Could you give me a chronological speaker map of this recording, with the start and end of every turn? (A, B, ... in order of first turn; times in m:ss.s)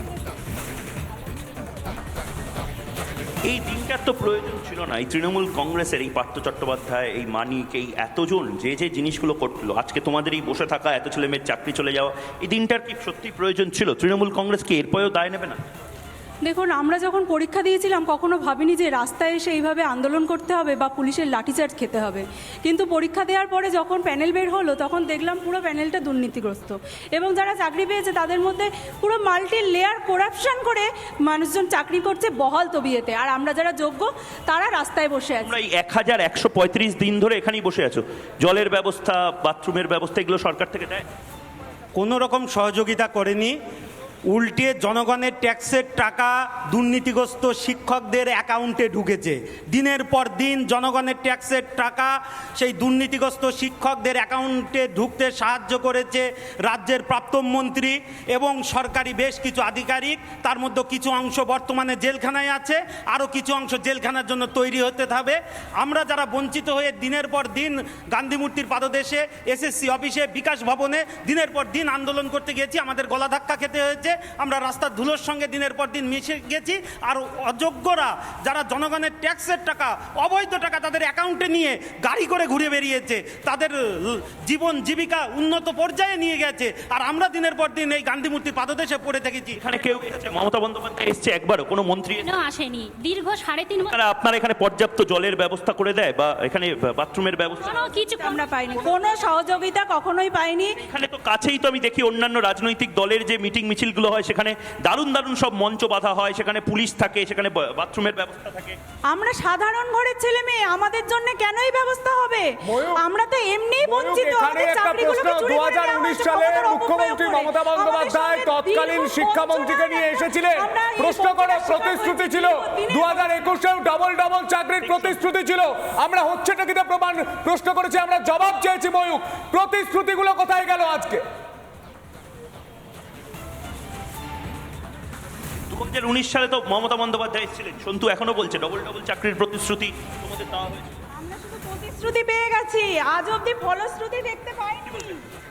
0:03.5-0:15.6 A
0:16.5-0:35.5 B
0:35.4-0:41.0 A
0:42.0-0:43.6 C
0:44.3-1:29.6 C
1:29.6-1:32.3 A
1:32.2-1:34.0 D
1:33.9-1:37.8 A
1:37.6-1:40.7 B
1:37.9-1:38.4 D
1:40.8-1:48.8 A
1:49.1-2:03.4 B
1:52.7-1:53.0 E
1:53.8-2:11.2 E
2:04.8-2:05.2 A
2:15.7-2:20.9 A
2:21.2-2:25.0 B
2:24.9-2:25.2 A